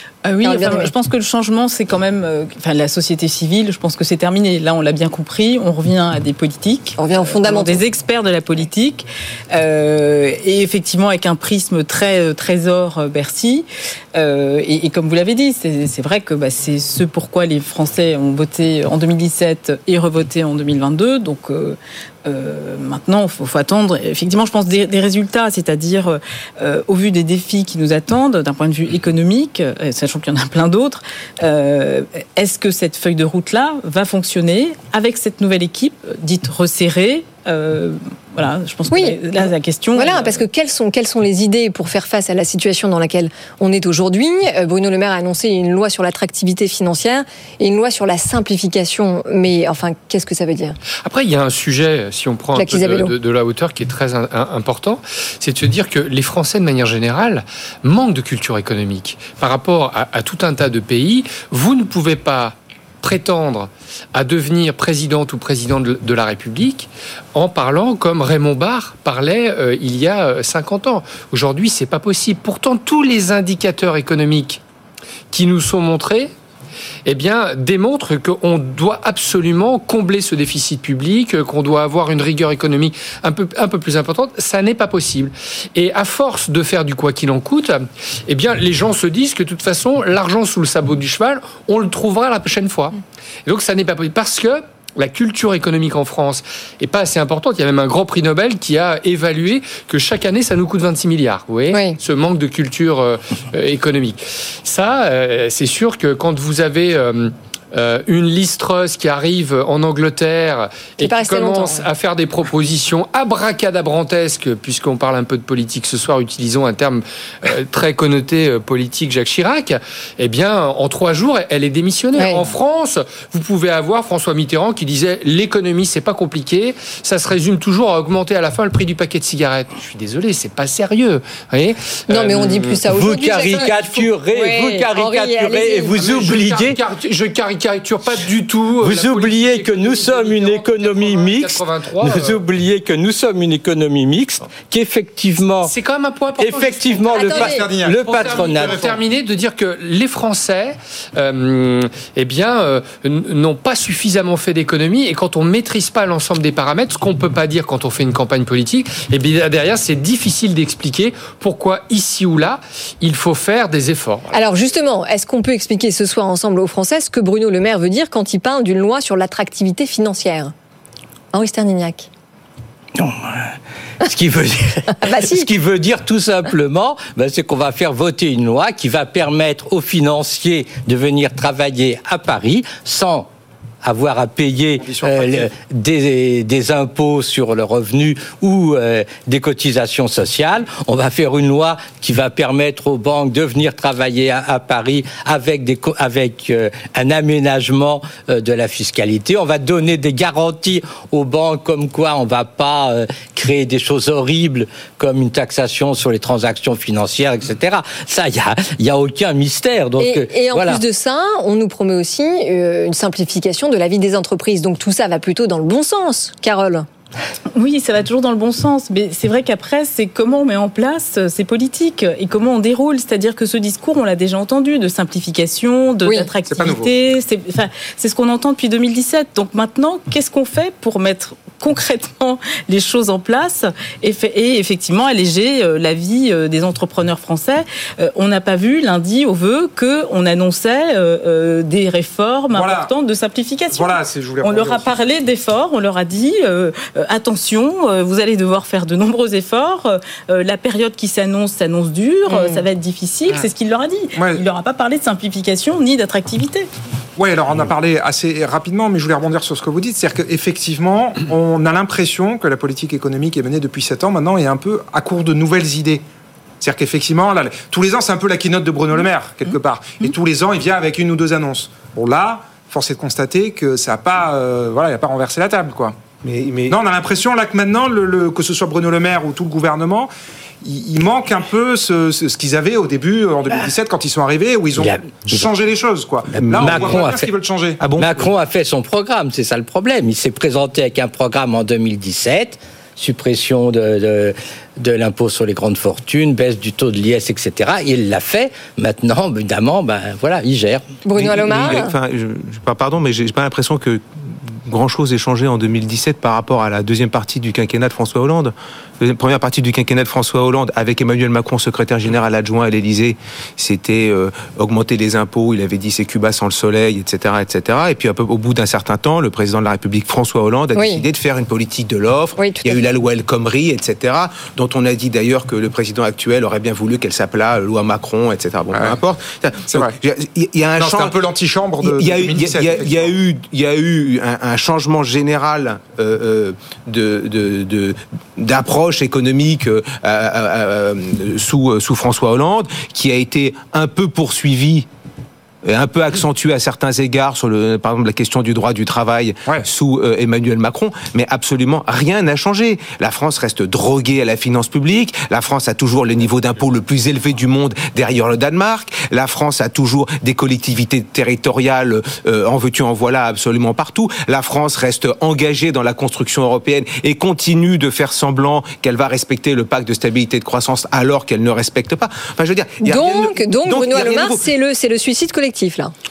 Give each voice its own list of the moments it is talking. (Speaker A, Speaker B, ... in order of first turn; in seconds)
Speaker A: 0.2-40.4, 217.5-256.7
Speaker B: 0.4-0.9, 7.0-7.8, 38.9-39.4, 40.0-50.8, 52.5-53.1, 101.7-102.0, 111.0-111.9, 122.2-122.4, 132.1-136.1, 147.1-147.7, 164.3-170.5, 171.3-172.1, 175.0-175.5, 210.0-216.9, 252.3-252.6, 301.0-301.9, 320.7-321.0, 322.4-322.8, 372.8-375.9
Speaker C: 51.0-74.6, 75.3-76.3, 77.0-132.8, 135.9-142.4, 145.6-164.4
Speaker D: 132.9-136.8, 138.8-145.7, 146.4-148.9, 172.9-183.3, 183.8-210.8, 284.8-285.4, 286.5-287.3, 288.0-300.8
Speaker E: 147.4-149.0, 184.8-185.5, 226.4-226.9, 242.5-242.9, 243.7-245.0, 254.1-254.4, 257.2-266.0, 266.6-275.9, 276.7-280.1, 280.6-287.8, 328.7-329.0, 329.6-330.0, 330.8-333.1
Speaker F: 276.2-276.8, 286.3-287.1, 287.8-288.3, 301.1-331.2, 331.8-344.9, 345.6-374.4